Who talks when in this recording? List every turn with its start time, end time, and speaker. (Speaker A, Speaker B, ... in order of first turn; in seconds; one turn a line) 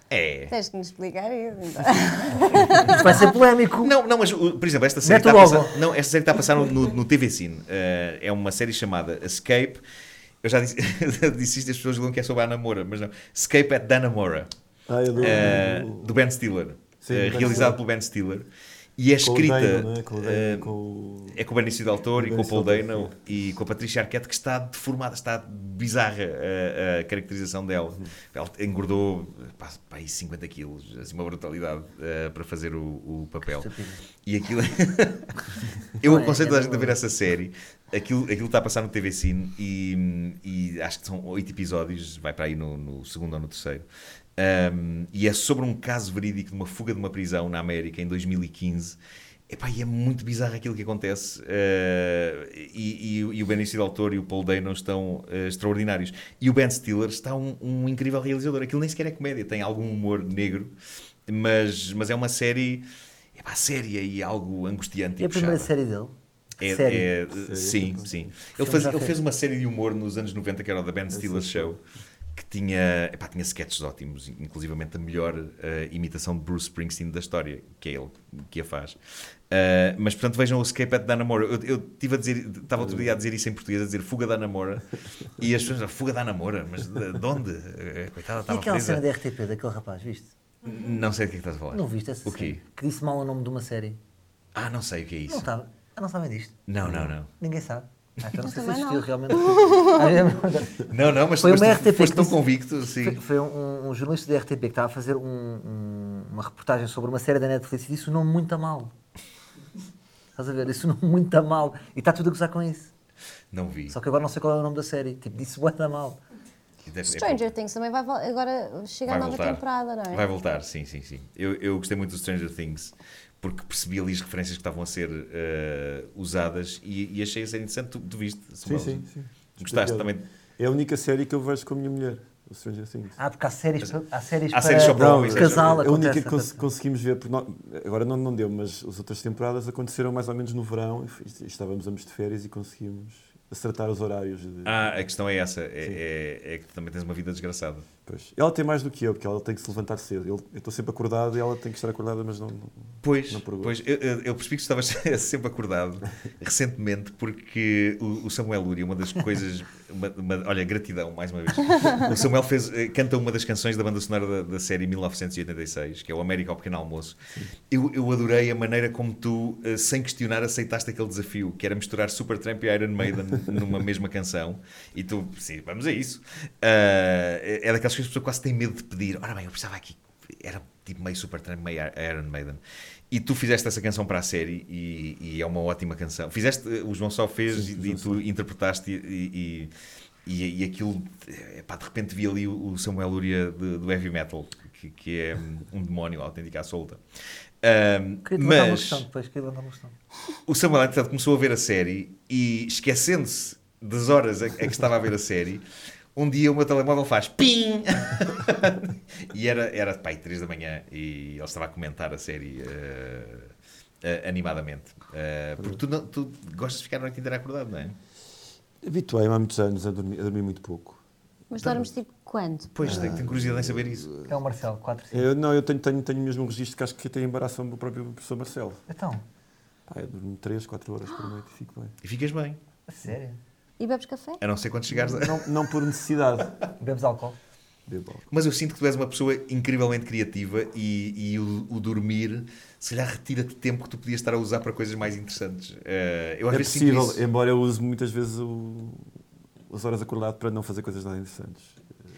Speaker A: 0.1-0.5
Speaker B: 0.5-3.3
Speaker C: 2.6-3.9
Speaker A: 3.8-9.8
Speaker C: 5.0-5.8
Speaker A: 10.4-14.5
Speaker D: 14.9-16.1
Speaker A: 15.2-20.7
Speaker D: 17.0-17.8
Speaker D: 19.2-21.4
Speaker A: 21.3-33.7
Speaker D: 22.2-23.1
Speaker C: 33.5-34.0
Speaker A: 34.2-35.4
Speaker A: 36.0-49.0
Speaker C: 36.0-37.0
Speaker A: 49.5-60.7
Speaker A: 61.3-65.7
Speaker C: 65.2-67.1
Speaker A: 66.6-71.8
Speaker D: 67.4-68.1
Speaker C: 68.6-69.2
Speaker D: 71.1-71.7
Speaker A: 72.3-89.0
Speaker D: 82.8-83.1
Speaker C: 88.5-90.3
Speaker A: 90.6-92.6
Speaker C: 91.7-94.0
Speaker A: 94.5-95.5
Speaker C: 95.3-108.9
Speaker A: 96.7-97.3
Speaker B: 98.4-100.1
Speaker A: 100.8-103.2
Speaker C: 110.3-112.9
Speaker A: 113.5-113.9
Speaker C: 113.9-116.2
Speaker A: 116.8-117.5
Speaker B: 117.0-120.2
Speaker A: 119.1-129.0
Speaker D: 128.6-133.2
Speaker A: 129.6-130.2
Speaker C: 133.2-136.6
Speaker A: 134.5-135.8
Speaker D: 134.8-144.9
Speaker A: 144.7-147.9
Speaker D: 148.0-153.7
Speaker A: 153.0-189.7
Speaker D: 187.5-188.2
Speaker A: 190.2-197.0
Speaker A: 197.6-199.0
Speaker C: 198.2-199.9
Speaker A: 200.5-205.6
Speaker A: 206.1-213.5
Speaker A: 214.0-218.0
Speaker D: 218.8-221.0
Speaker B: 221.5-223.1
Speaker A: 222.7-224.1
Speaker D: 222.8-224.3
Speaker C: 224.2-225.3
Speaker D: 225.1-228.8
Speaker C: 228.9-229.2
Speaker D: 229.9-231.9
Speaker A: 232.0-232.6
Speaker C: 232.9-233.4
Speaker B: 233.8-234.4
Speaker A: 234.4-235.5
Speaker D: 234.9-236.6
Speaker C: 236.8-237.4
Speaker D: 237.9-238.2
Speaker A: 238.3-247.2
Speaker D: 246.5-249.1
Speaker D: 249.7-251.8